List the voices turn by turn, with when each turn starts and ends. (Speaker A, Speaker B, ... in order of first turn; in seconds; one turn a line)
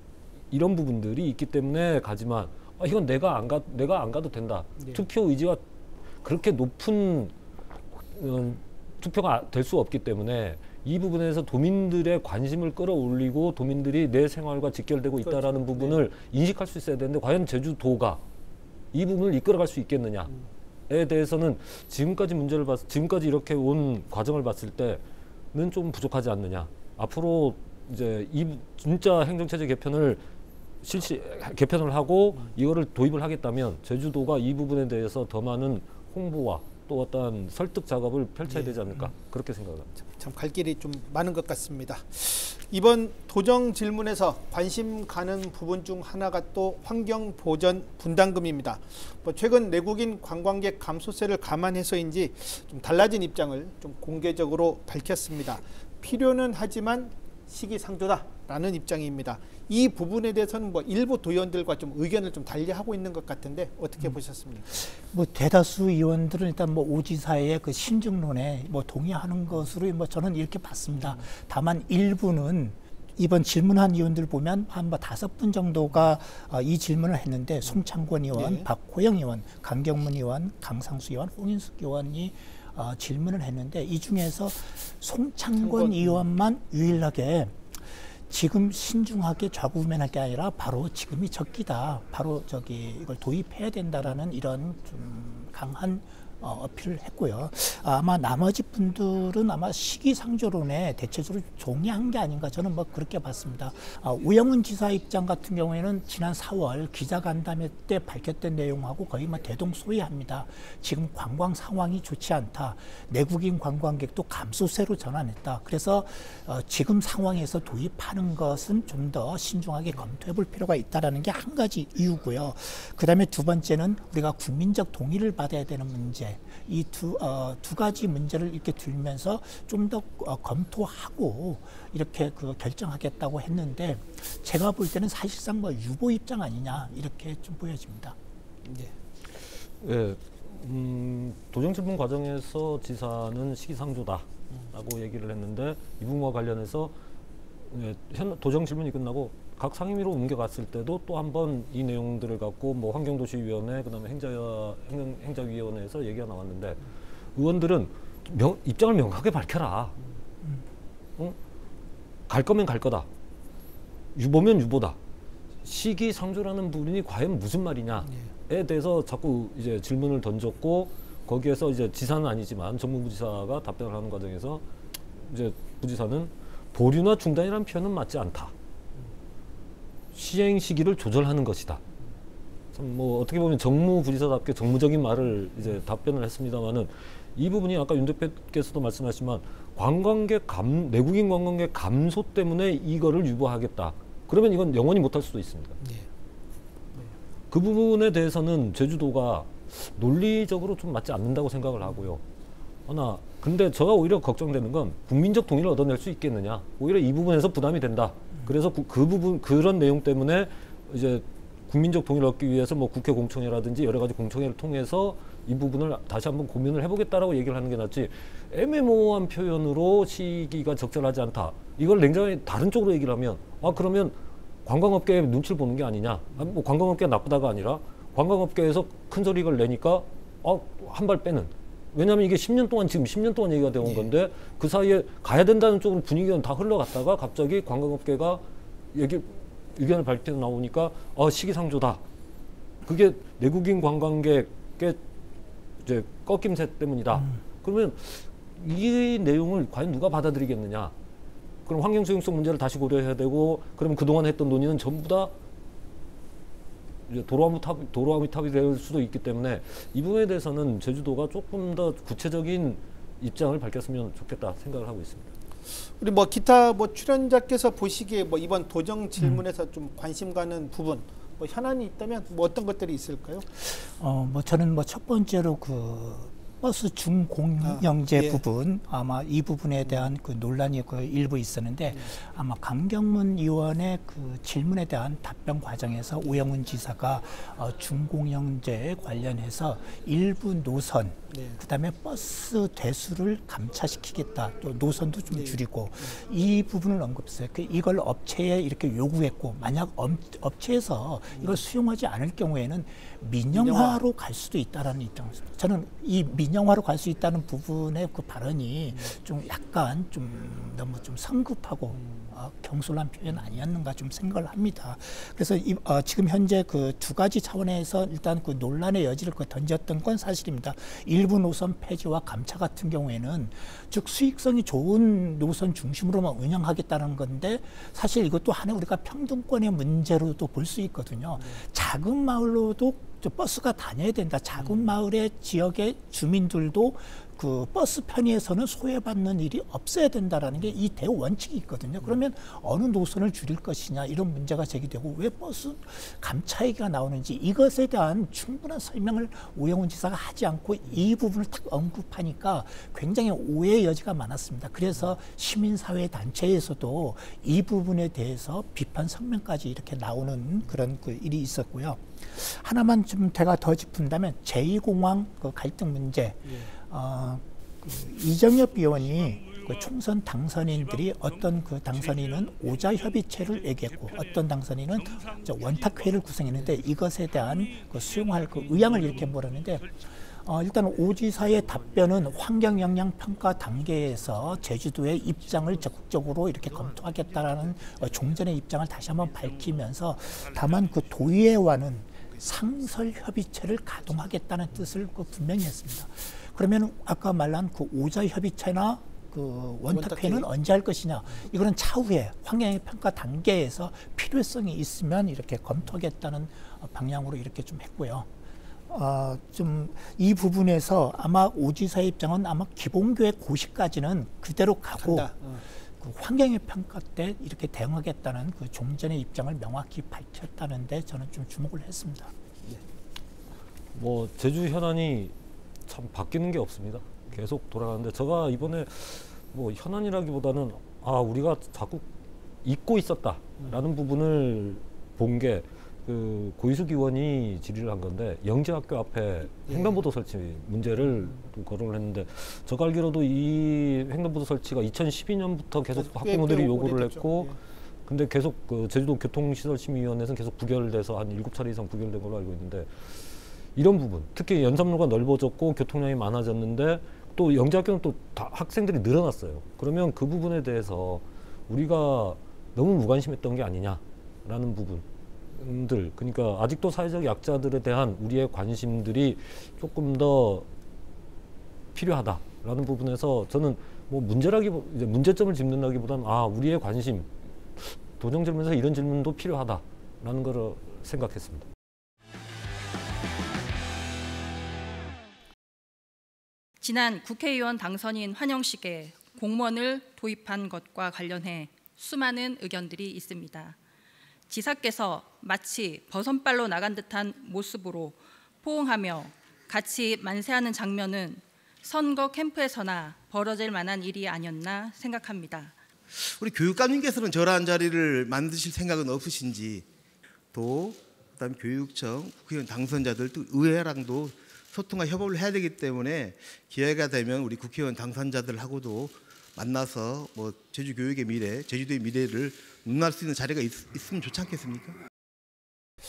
Speaker A: 0.5-5.6
Speaker A: 6.2-7.3
Speaker A: 8.1-18.2
Speaker B: 15.2-16.0
Speaker A: 18.9-20.3
Speaker A: 20.9-30.2
Speaker A: 30.8-39.9
Speaker B: 38.5-39.1
Speaker B: 40.2-64.8
Speaker C: 64.8-138.2
Speaker B: 71.0-71.2
Speaker B: 78.3-78.7
Speaker B: 85.6-86.2
Speaker B: 138.6-138.9
Speaker A: 139.8-146.9
Speaker A: 147.7-156.8
Speaker A: 157.3-159.9
Speaker A: 162.3-163.1
Speaker A: 164.1-165.0
Speaker A: 165.6-178.5
Speaker B: 168.1-168.3
Speaker A: 180.1-181.8
Speaker A: 182.7-195.8
Speaker B: 195.8-196.1
Speaker A: 197.5-202.2
Speaker A: 202.8-242.0
Speaker B: 233.8-234.1
Speaker A: 242.8-245.0
Speaker A: 245.8-250.9
Speaker A: 251.7-255.3
Speaker A: 257.1-265.3
Speaker B: 266.0-273.5
Speaker C: 273.6-408.3
Speaker B: 277.6-278.4
Speaker B: 279.8-280.1
Speaker B: 291.3-291.6
Speaker B: 295.3-296.1
Speaker B: 301.3-301.6
Speaker B: 303.5-304.0
Speaker B: 311.9-312.3
Speaker B: 331.4-331.6
Speaker B: 334.6-334.9
Speaker B: 366.4-366.7
Speaker B: 399.9-400.5
Speaker C: 408.9-422.3
Speaker B: 415.0-415.6
Speaker A: 423.9-425.3
Speaker A: 425.9-432.1
Speaker A: 432.6-447.5
Speaker B: 439.7-440.0
Speaker B: 445.9-447.6
Speaker A: 448.1-453.1
Speaker A: 453.8-470.7
Speaker A: 471.9-481.7
Speaker D: 486.8-493.8
Speaker D: 494.5-505.7
Speaker E: 506.1-509.9
Speaker E: 510.5-525.0